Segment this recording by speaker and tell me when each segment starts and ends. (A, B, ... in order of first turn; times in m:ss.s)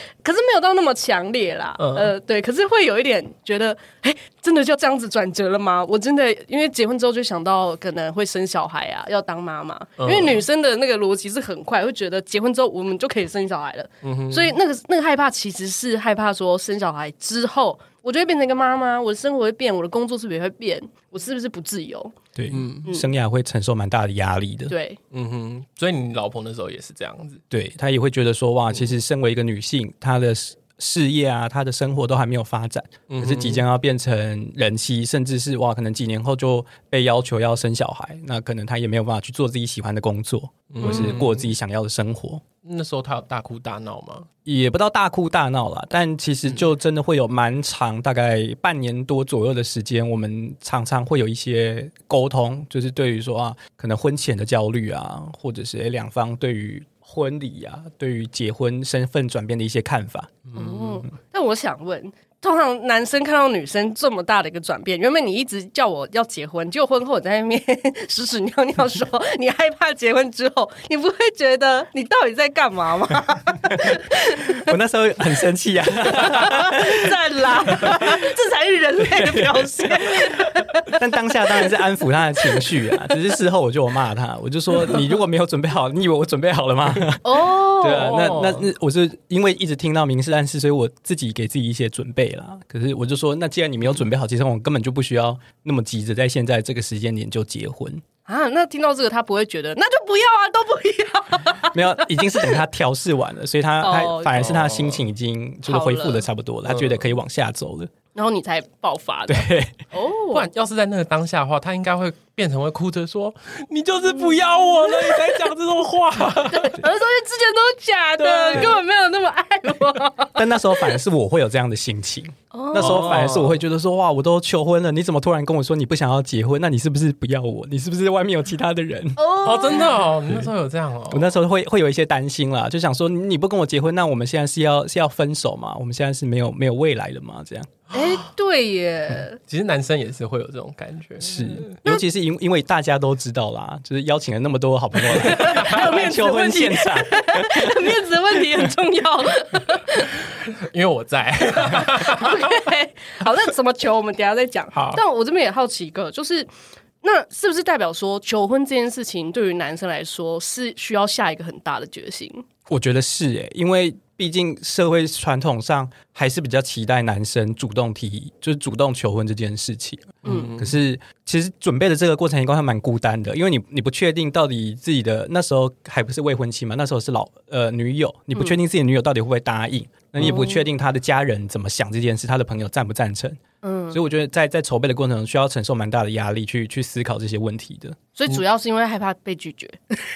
0:00.2-0:22.2 A
0:01.8-0:02.1 B
0:10.0-0:10.4 B
0:14.0-0:14.5 B
0:22.4-0:24.7 C
0:22.5-0:22.9 B
0:24.7-0:25.0 A
0:25.1-0:27.4 B
0:27.5-0:42.4 C
0:33.1-0:33.6 B
0:40.7-0:41.5 B
0:42.6-0:44.3 B
0:44.4-1:00.4 C
1:00.4-1:01.0 B
1:00.5-1:14.7 A
1:14.5-1:17.1 C
1:16.1-1:21.7 A
1:17.6-1:18.2 C
1:19.0-1:38.0 C
1:22.4-1:22.8 A
1:27.2-1:28.4 A
1:27.9-1:28.6 B
1:38.2-1:42.6 A
1:41.7-1:47.9 C
1:43.8-1:44.6 A
1:44.4-1:45.0 B
1:45.6-1:46.3 A
1:46.7-1:47.0 B
1:48.1-1:50.5 A
1:49.3-1:49.8 C
1:50.3-1:56.8 B
1:54.9-1:55.3 A
1:56.5-2:01.0 A
1:58.2-1:58.8 B
2:00.4-2:09.2 C
2:02.5-2:03.2 A
2:02.8-2:03.6 B
2:09.2-2:10.1 A
2:09.4-2:11.3 B
2:11.1-2:17.7 C
2:17.9-2:18.2 B
2:17.9-2:19.4 A
2:19.5-2:21.8 B
2:21.2-2:28.7 C
2:25.1-2:30.1 A
2:25.3-2:25.9 B
2:30.3-2:32.6 B
2:31.7-2:36.5 A
2:34.7-2:35.0 B
2:37.0-2:42.4 A
2:42.7-3:08.0 C
2:50.2-2:50.8 B
2:50.2-2:50.5 A
3:00.2-3:00.6 A
3:03.6-3:04.0 A
3:08.2-3:10.0 A